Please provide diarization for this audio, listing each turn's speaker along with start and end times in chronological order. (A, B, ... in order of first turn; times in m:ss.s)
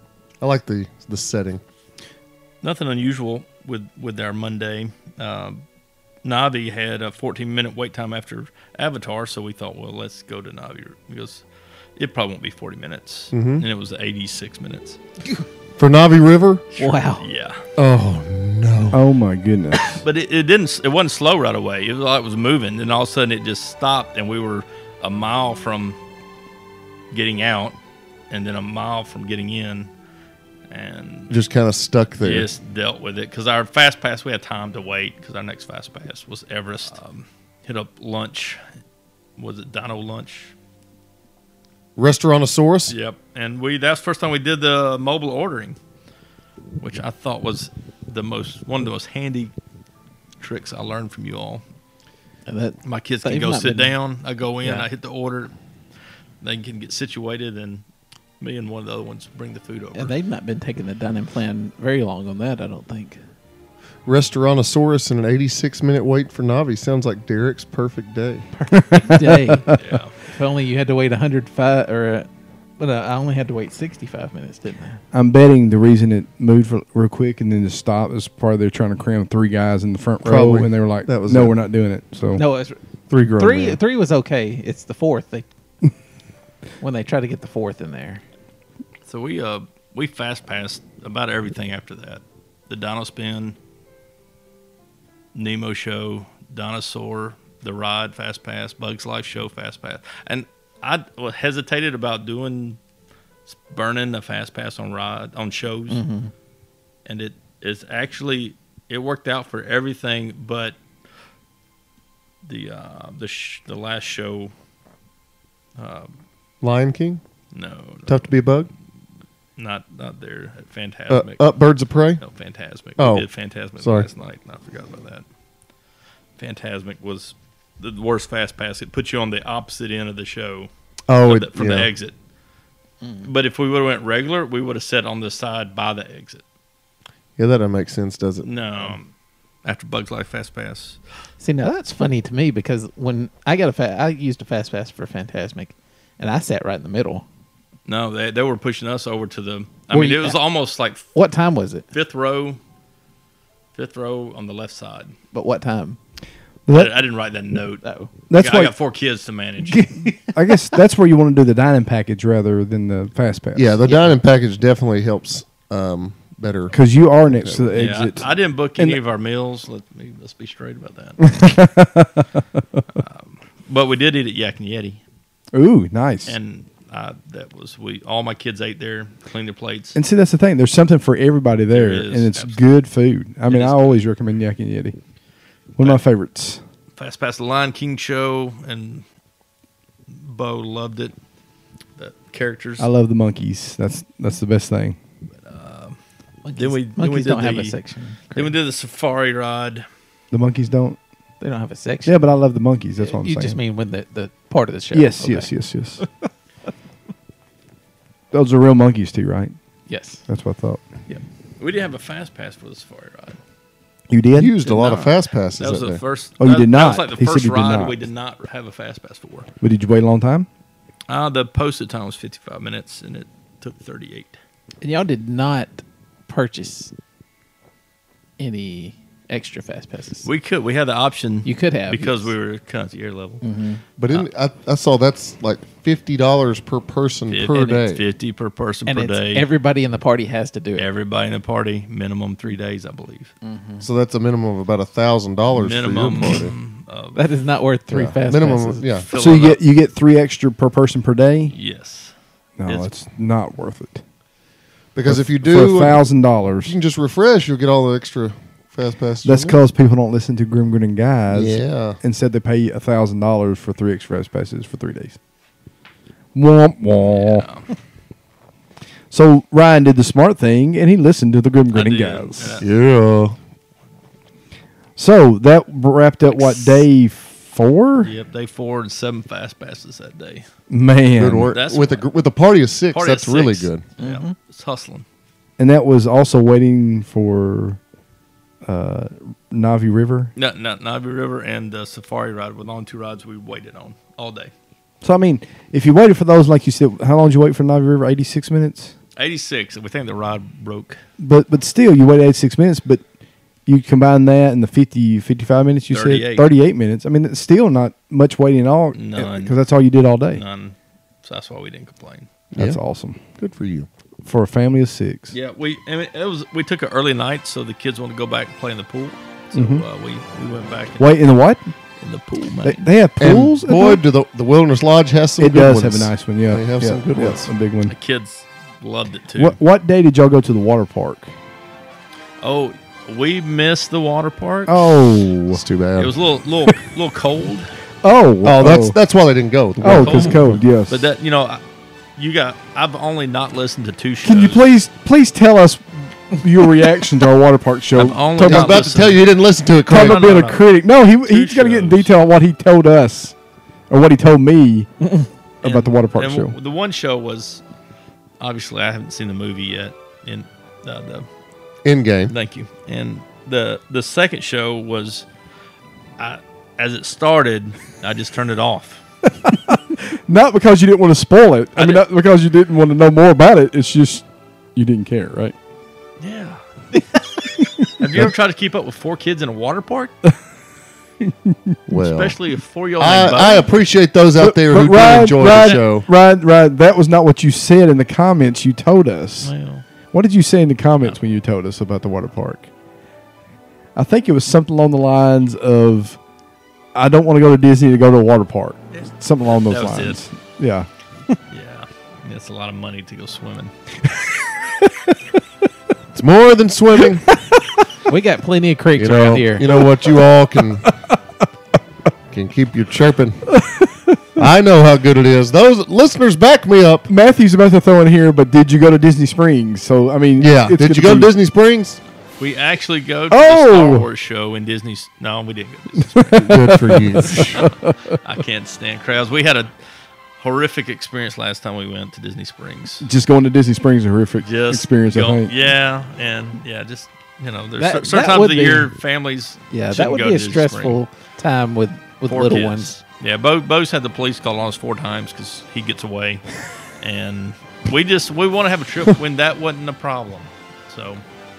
0:00.4-0:01.6 A
0:02.6-0:05.6 B
0:06.2-0:11.4 B
0:12.0-0:15.0 B
0:13.3-0:13.6 A
0:15.8-0:16.7 A
0:16.8-0:17.6 B
0:16.8-0:17.2 C
0:17.8-0:19.0 A
0:18.9-0:20.0 D
0:19.8-0:26.0 B
0:27.1-0:27.8 B
0:28.3-0:29.9 B
0:30.7-0:31.4 B
0:31.3-0:32.5 A
0:32.2-0:38.6 B
0:39.4-0:40.5 B
0:42.0-0:43.0 A
0:42.9-0:45.8 B
0:46.8-0:49.5 B
0:50.4-0:51.6 B
0:52.5-0:54.0 C
0:52.8-0:55.5 B
0:54.6-0:54.9 C
0:56.4-0:57.8 B
0:58.4-1:00.1 B
1:00.0-1:03.2 C
1:04.1-1:08.5 A
1:08.6-1:12.3 C
1:08.7-1:09.8 D
1:09.7-1:10.2 B
1:12.8-1:15.0 C
1:15.1-1:22.4 D
1:20.2-1:21.5 A
1:22.4-1:25.5 C
1:23.1-1:23.8 A
1:26.8-1:28.2 C
1:29.1-1:33.6 B
1:35.4-1:42.8 B
1:43.5-1:46.0 B
1:45.9-1:46.3 C
1:47.1-1:50.8 B
1:52.4-1:54.5 B
1:55.8-1:56.1 B
1:56.6-1:57.2 A
1:57.5-1:58.3 B
1:58.1-1:58.7 A
1:59.6-2:01.5 B
2:01.1-2:02.2 A
2:02.2-2:05.2 B
2:03.0-2:03.3 A
2:03.8-2:04.1 A
2:06.4-2:12.1 B
2:11.1-2:11.9 A
2:13.0-2:13.3 C
2:13.2-2:16.4 B
2:17.4-2:18.5 A
2:18.4-2:19.1 B
2:19.6-2:21.0 B
2:21.4-2:27.2 C
2:27.9-2:31.1 B
2:29.9-2:30.4 C
2:31.2-2:31.9 C
2:31.9-2:32.6 B
2:33.7-2:35.2 B
2:35.3-2:36.0 C
2:36.7-2:36.9 D
2:36.7-2:40.2 B
2:37.8-2:38.1 C
2:38.3-2:38.7 D
2:39.8-2:40.4 C
2:40.3-2:44.1 D
2:43.6-2:47.8 A
2:46.7-2:49.0 D
2:47.8-2:51.3 B
2:51.2-2:52.8 D
2:53.0-2:55.0 B
2:55.5-2:56.4 D
2:56.3-3:00.0 B
3:00.0-3:05.0 D
3:01.7-3:02.6 B
3:03.5-3:04.0 B
3:05.8-3:06.6 D
3:07.0-3:09.0 B
3:10.1-3:11.1 B
3:12.0-3:12.9 B
3:12.8-3:15.0 D
3:15.4-3:16.0 B
3:16.4-3:18.5 C
3:16.6-3:17.8 B
3:18.3-3:19.9 B
3:20.3-3:21.0 D
3:21.4-3:22.2 C
3:22.1-3:23.6 D
3:23.0-3:25.5 C
3:24.9-3:26.0 D
3:28.3-3:29.6 D
3:29.9-3:30.2 C
3:30.3-3:30.8 D
3:31.6-3:33.4 B
3:34.1-3:34.6 D
3:34.4-3:36.0 A
3:34.6-3:39.5 B
3:36.4-3:38.0 D
3:39.6-3:40.5 D
3:41.1-3:44.4 B
3:44.8-3:46.9 C
3:48.4-3:50.3 C
3:50.2-3:53.4 B
3:51.4-3:52.3 C
3:53.4-3:53.8 C
3:54.0-3:58.0 A
3:57.3-3:59.5 B
3:58.9-4:00.9 C
4:00.8-4:03.3 B
4:03.4-4:03.9 C
4:03.8-4:06.5 A
4:05.5-4:07.2 B
4:07.1-4:08.9 C
4:07.9-4:09.1 A
4:08.9-4:09.6 B
4:09.2-4:11.6 D
4:11.5-4:12.1 B
4:12.6-4:14.0 D
4:15.0-4:16.0 A
4:15.1-4:16.8 D
4:16.6-4:19.6 A
4:19.2-4:25.2 D
4:21.3-4:22.0 A
4:26.3-4:27.5 D
4:27.0-4:27.7 B
4:29.1-4:32.6 D
4:31.7-4:32.7 B
4:32.6-4:33.4 A
4:35.0-4:38.1 D
4:36.4-4:36.8 B
4:38.0-4:40.5 B
4:40.7-4:41.5 D
4:41.2-4:43.8 A
4:41.5-4:42.1 B
4:42.9-4:45.0 B
4:44.0-4:44.3 C
4:45.6-4:47.8 D
4:48.6-4:50.3 D
4:50.4-4:54.5 B
4:55.0-4:58.9 D
4:59.2-5:01.0 B
5:01.2-5:03.0 D
5:03.7-5:10.4 D
5:05.9-5:06.5 B
5:08.9-5:09.6 B
5:10.3-5:12.3 B
5:12.6-5:13.2 D
5:13.4-5:13.9 A
5:14.2-5:15.4 D
5:15.3-5:21.3 B
5:19.5-5:19.8 D
5:21.0-5:21.7 D
5:22.0-5:22.9 B
5:22.6-5:24.0 D
5:23.2-5:27.5 A
5:25.4-5:27.9 D
5:27.9-5:29.6 B
5:29.4-5:31.3 D
5:32.4-5:35.3 B
5:34.7-5:35.6 D
5:35.5-5:36.1 A
5:36.0-5:37.7 B
5:38.0-5:39.0 D
5:38.4-5:40.5 A
5:39.8-5:41.1 D
5:39.8-5:41.6 B
5:42.2-5:44.6 B
5:44.2-5:48.9 D
5:48.0-5:50.6 B
5:48.4-5:50.4 A
5:49.9-5:53.4 D
5:51.2-5:52.1 B
5:53.9-5:54.9 D
5:55.6-5:56.5 D
5:55.6-5:57.6 B
5:58.4-6:01.3 B
6:01.8-6:02.3 A
6:02.3-6:05.3 B
6:06.2-6:09.0 B
6:09.4-6:15.6 D
6:11.8-6:12.0 B
6:16.2-6:16.6 B
6:17.8-6:20.1 B
6:21.2-6:21.8 D
6:21.9-6:22.4 A
6:21.9-6:23.7 B
6:23.0-6:26.1 A
6:24.4-6:29.5 D
6:25.4-6:25.8 B
6:29.4-6:29.8 B
6:30.1-6:32.7 D
6:34.0-6:36.2 D
6:37.0-6:40.9 D
6:38.9-6:40.2 B
6:41.5-6:43.7 B
6:44.1-6:45.2 D
6:46.1-6:47.3 A
6:47.0-6:47.8 D
6:48.1-6:49.7 C
6:49.0-6:50.9 A
6:49.7-6:50.3 D
6:50.8-6:51.2 D
6:52.3-6:53.5 A
6:53.5-6:54.2 D
6:54.4-6:57.1 A
6:57.1-7:01.3 D
7:00.4-7:02.0 A
7:02.4-7:09.7 B
7:03.3-7:04.1 D
7:06.0-7:08.2 D
7:06.4-7:07.7 A
7:10.4-7:13.1 B
7:13.0-7:15.5 D
7:14.4-7:21.0 B
7:17.8-7:18.9 C
7:19.7-7:22.9 C
7:22.3-7:31.2 B